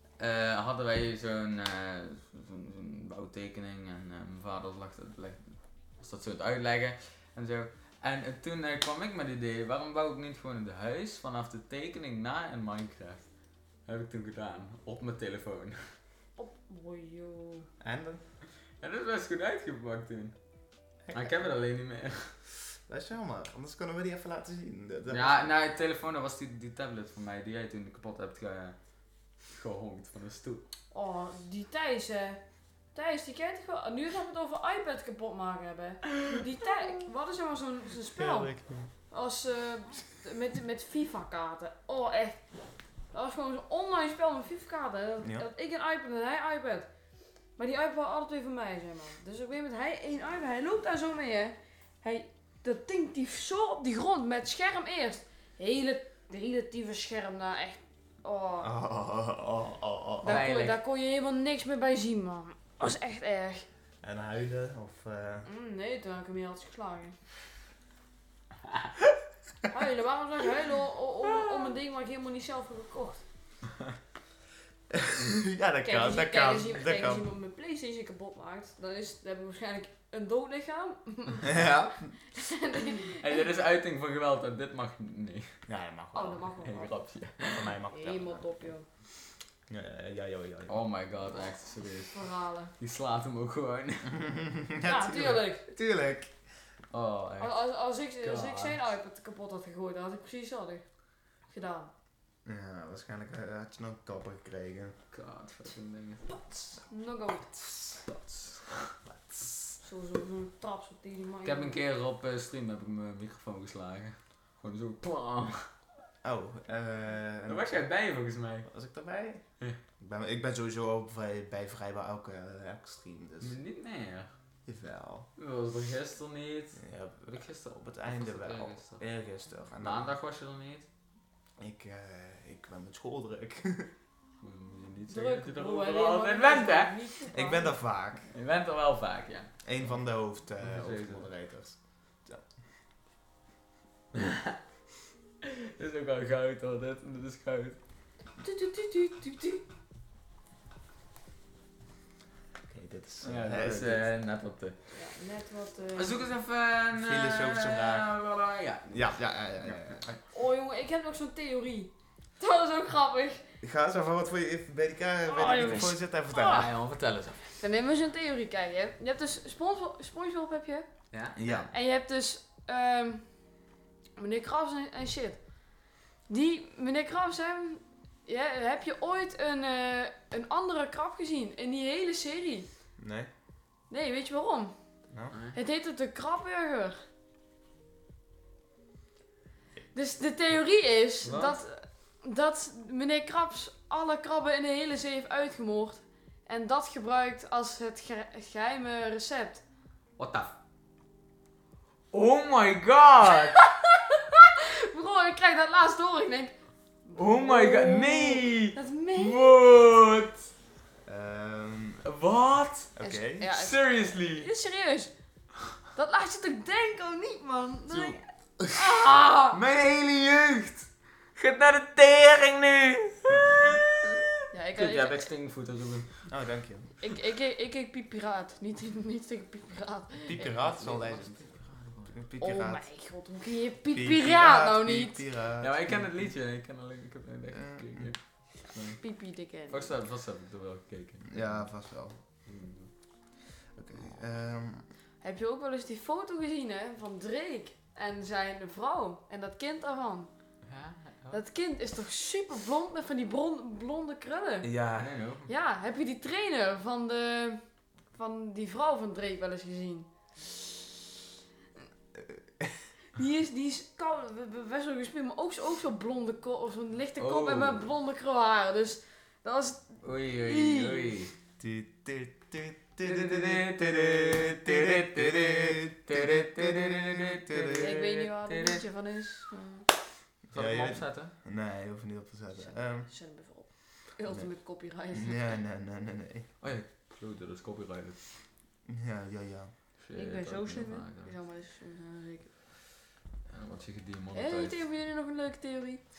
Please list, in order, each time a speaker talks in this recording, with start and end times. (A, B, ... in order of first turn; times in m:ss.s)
0:00.2-0:13.2 A
0:13.8-0:15.9 A
0:16.4-0:17.7 B
0:17.8-0:18.2 C
0:18.8-0:20.4 A
0:21.1-0:21.3 C
0:21.1-0:22.3 A
0:22.9-0:25.5 C
0:25.1-0:28.8 A
0:29.4-0:30.6 A
0:30.9-0:32.4 B
0:32.9-0:38.5 B
0:38.2-0:38.9 C
0:39.1-0:42.4 B
0:43.1-0:46.9 B
0:45.2-0:45.5 C
0:47.6-0:58.7 B
0:58.6-1:00.4 C
1:00.2-1:03.6 B
1:00.2-1:00.8 A
1:04.0-1:05.5 C
1:05.4-1:07.2 B
1:09.7-1:13.2 B
1:14.9-1:17.3 C
1:15.8-1:23.4 B
1:21.4-1:22.1 C
1:23.2-1:25.5 A
1:25.7-1:26.5 C
1:26.1-1:26.9 B
1:26.6-1:27.7 A
1:27.5-1:28.5 C
1:27.9-1:28.8 B
1:29.7-1:30.8 C
1:30.7-1:32.2 A
1:32.1-1:32.7 B
1:32.8-1:34.3 A
1:34.1-1:36.3 C
1:34.8-1:35.7 B
1:36.9-1:37.5 A
1:37.4-1:40.8 B
1:38.2-1:38.8 A
1:41.5-1:41.9 B
1:42.4-1:45.0 C
1:45.1-1:46.3 A
1:46.8-1:47.6 B
1:47.7-1:48.0 C
1:48.0-1:48.8 A
1:49.0-1:49.8 C
1:49.8-1:51.8 B
1:51.4-1:55.7 A
1:56.2-1:57.7 C
1:57.5-1:58.7 A
1:58.7-1:59.4 C
2:00.0-2:03.6 C
2:03.4-2:04.3 A
2:04.6-2:05.3 C
2:05.4-2:09.0 A
2:06.8-2:10.1 C
2:09.8-2:10.9 A
2:11.6-2:13.9 C
2:14.4-2:17.0 A
2:15.1-2:17.7 B
2:17.3-2:18.3 C
2:18.3-2:19.5 A
2:19.6-2:22.5 C
2:20.6-2:21.3 A
2:24.1-2:24.6 A
2:25.4-2:27.8 A
2:28.4-2:29.6 B
2:32.7-2:34.0 C
2:33.2-2:34.8 A
2:34.9-2:36.3 B
2:35.9-2:39.0 A
2:36.9-2:38.1 C
2:38.8-2:40.2 C
2:40.3-2:43.4 B
2:43.6-2:46.7 C
2:45.2-2:46.7 B
2:45.5-2:45.8 A
2:46.3-2:47.6 A
2:47.6-2:50.9 B
2:51.1-2:51.7 A
2:51.4-2:51.7 C
2:51.7-2:53.2 B
2:54.2-2:55.4 B
2:56.3-3:02.7 B
3:03.0-3:03.3 C
3:03.9-3:04.7 B
3:05.3-3:05.6 A
3:05.5-3:07.0 B
3:09.9-3:19.6 B
3:11.2-3:11.6 A
3:20.2-3:20.5 A
3:22.1-3:23.6 A
3:23.5-3:26.5 B
3:27.0-3:29.6 B
3:27.1-3:30.5 A
3:31.0-3:32.0 C
3:32.0-3:32.9 A
3:33.0-3:33.5 C
3:33.0-3:35.1 B
3:33.5-3:34.5 A
3:35.9-3:39.6 B
3:37.9-3:40.9 C
3:41.4-3:46.3 A
3:43.3-3:43.8 C
3:44.5-3:45.3 B
3:46.3-3:46.9 C
3:47.0-3:50.5 B
3:50.2-3:51.4 C
3:50.4-3:52.1 A
3:52.1-3:52.8 C
3:52.4-3:55.2 B
3:53.9-3:56.1 C
3:55.6-3:59.0 A
3:57.5-3:58.1 C
3:59.0-3:59.9 B
3:59.7-4:01.6 A
4:01.3-4:02.2 C
4:02.4-4:02.9 A
4:03.7-4:04.8 C
4:05.2-4:10.3 B
4:10.6-4:11.4 A
4:11.3-4:14.7 B
4:14.6-4:15.1 C
4:15.0-4:15.5 A
4:15.5-4:17.6 B
4:18.1-4:20.1 B
4:22.1-4:22.9 C
4:23.1-4:31.2 B
4:27.2-4:27.9 A
4:30.0-4:31.3 A
4:31.6-4:37.9 C
4:33.0-4:38.8 A
4:37.8-4:39.9 B
4:40.5-4:43.1 C
4:40.5-4:41.3 A
4:42.5-4:45.6 B
4:45.1-4:46.5 C
4:46.6-4:48.2 A
4:48.9-4:49.7 C
4:50.0-4:51.3 A
4:50.1-4:52.5 B
4:53.5-4:54.8 A
4:54.3-4:56.0 B